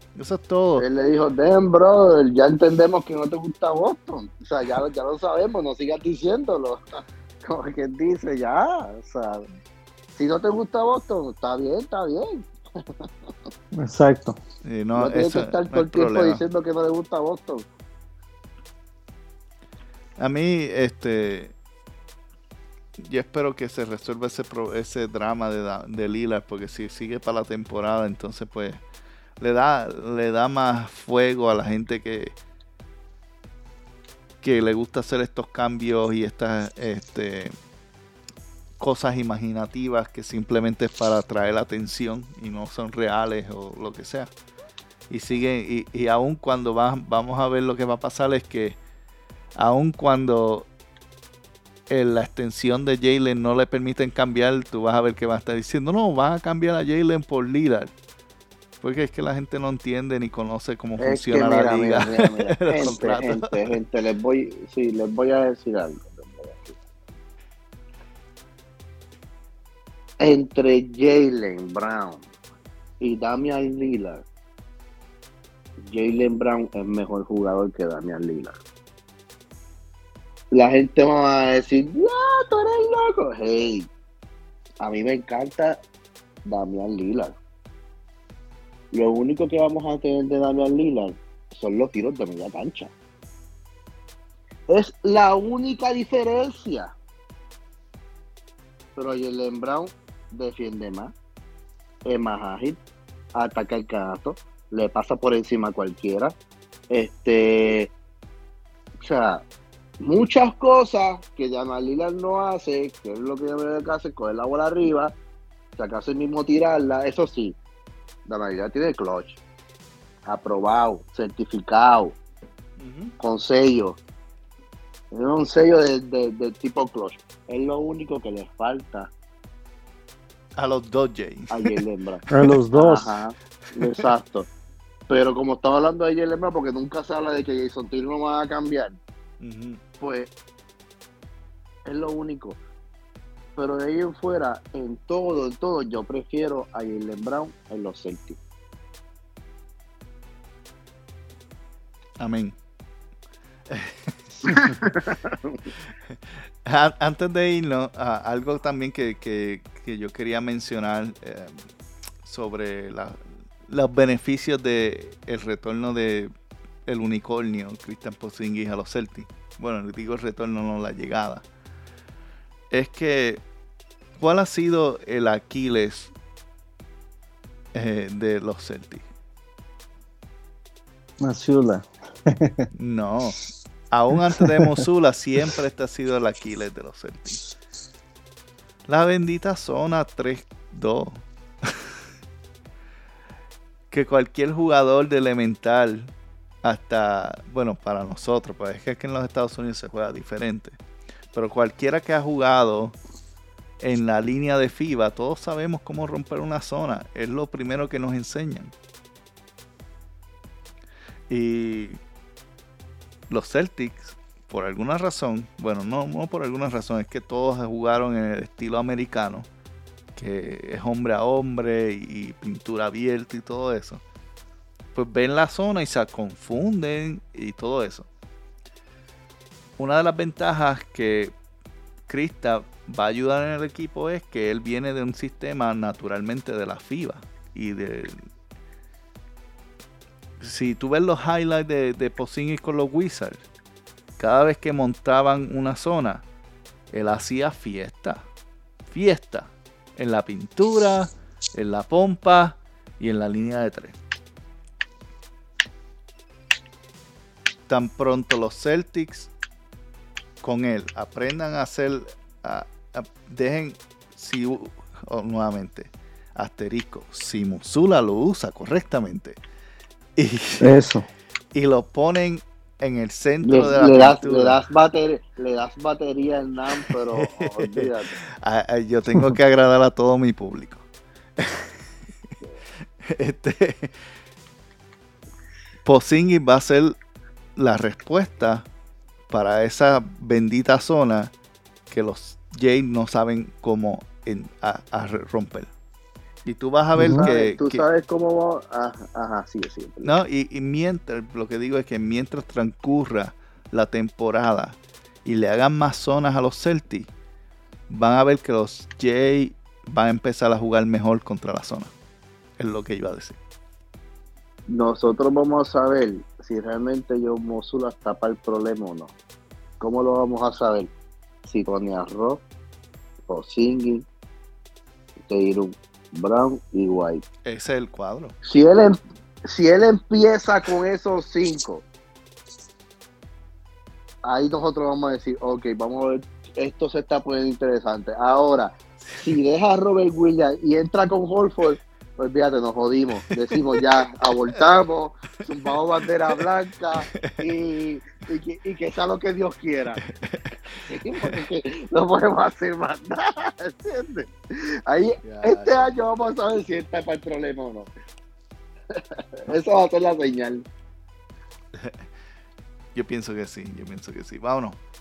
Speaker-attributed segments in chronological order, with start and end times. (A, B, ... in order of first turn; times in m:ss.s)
0:00.2-0:00.8 A
0:00.8-0:09.4 B
0:10.2-0:12.5 B
0:13.7-0:14.4 C
0:14.6-0:16.4 A
0:15.0-0:17.6 B
0:20.2-0:21.5 A
0:23.0-0:28.8 A
0:29.4-0:32.3 A
0:34.4-0:37.5 A
0:38.8-0:44.3 A
0:45.1-0:48.8 A
0:49.6-0:50.7 A
0:51.9-0:57.9 A
0:58.8-1:03.7 A
1:01.0-1:06.8 B
1:10.2-1:12.2 B
1:13.0-1:14.2 B
1:15.8-1:18.6 B
1:20.5-1:23.9 B
1:24.8-1:25.8 B
1:26.4-1:27.3 B
1:28.9-1:32.9 B
1:34.7-1:36.9 B
1:39.0-1:41.1 B
1:42.0-1:42.8 B
1:43.3-1:46.3 B
1:46.9-1:47.9 B
1:49.0-1:49.4 B
1:50.0-1:55.1 B
1:55.8-1:57.6 B
1:58.2-1:59.4 B
2:00.2-2:02.2 B
2:02.8-2:03.1 A
2:03.2-2:04.0 B
2:05.1-2:09.1 B
2:10.6-2:11.8 A
2:11.5-2:14.5 B
2:12.3-2:13.1 C
2:15.1-2:19.0 B
2:19.4-2:19.8 A
2:20.0-2:20.3 B
2:21.8-2:22.6 B
2:23.6-2:28.4 B
2:32.2-2:32.6 A
2:33.7-2:34.5 A
2:34.5-2:35.6 B
2:36.1-2:41.6 A
2:42.2-2:46.3 A
2:46.8-2:51.4 A
2:52.7-2:53.4 A
2:54.2-2:56.1 A
2:57.7-2:59.0 A
3:01.2-3:02.7 C
3:02.7-3:03.4 A
3:03.9-3:07.4 A
3:08.9-3:12.0 A
3:13.9-3:16.1 A
3:16.6-3:20.8 A
3:21.3-3:23.0 A
3:23.8-3:28.7 A
3:31.3-3:32.0 A
3:33.3-3:39.5 A
3:40.1-3:44.0 A
3:44.9-3:48.1 A
3:49.8-3:51.3 A
3:52.1-3:58.2 A
4:00.4-4:03.4 A
4:04.2-4:06.2 A
4:06.9-4:08.2 A
4:08.9-4:14.0 A
4:17.7-4:19.3 A
4:20.4-4:29.4 A
4:30.2-4:30.8 A
4:30.6-4:31.1 C
4:31.5-4:34.6 A
4:33.4-4:38.1 B
4:36.9-4:40.8 A
4:41.4-4:41.8 A
4:43.0-4:44.0 A
4:45.8-4:47.0 A
4:47.6-4:48.7 A
4:49.3-4:51.3 A
4:51.9-4:55.7 A
4:56.4-4:57.8 A
4:56.9-4:57.2 C
4:57.1-5:00.1 B
5:00.0-5:07.1 A
5:07.9-5:11.9 A
5:12.6-5:13.4 A
5:14.7-5:19.1 B
5:19.8-5:20.9 B
5:21.4-5:22.4 B
5:23.3-5:24.0 B
5:25.3-5:27.2 B
5:27.4-5:28.3 A
5:28.4-5:31.8 B
5:34.2-5:50.0 B
5:39.0-5:39.3 A
5:43.3-5:43.8 A
5:47.0-5:47.4 A
5:50.0-5:50.4 A
5:50.7-5:57.9 B
5:55.2-5:56.0 A
5:58.9-6:00.6 B
6:01.7-6:02.1 A
6:02.9-6:04.8 A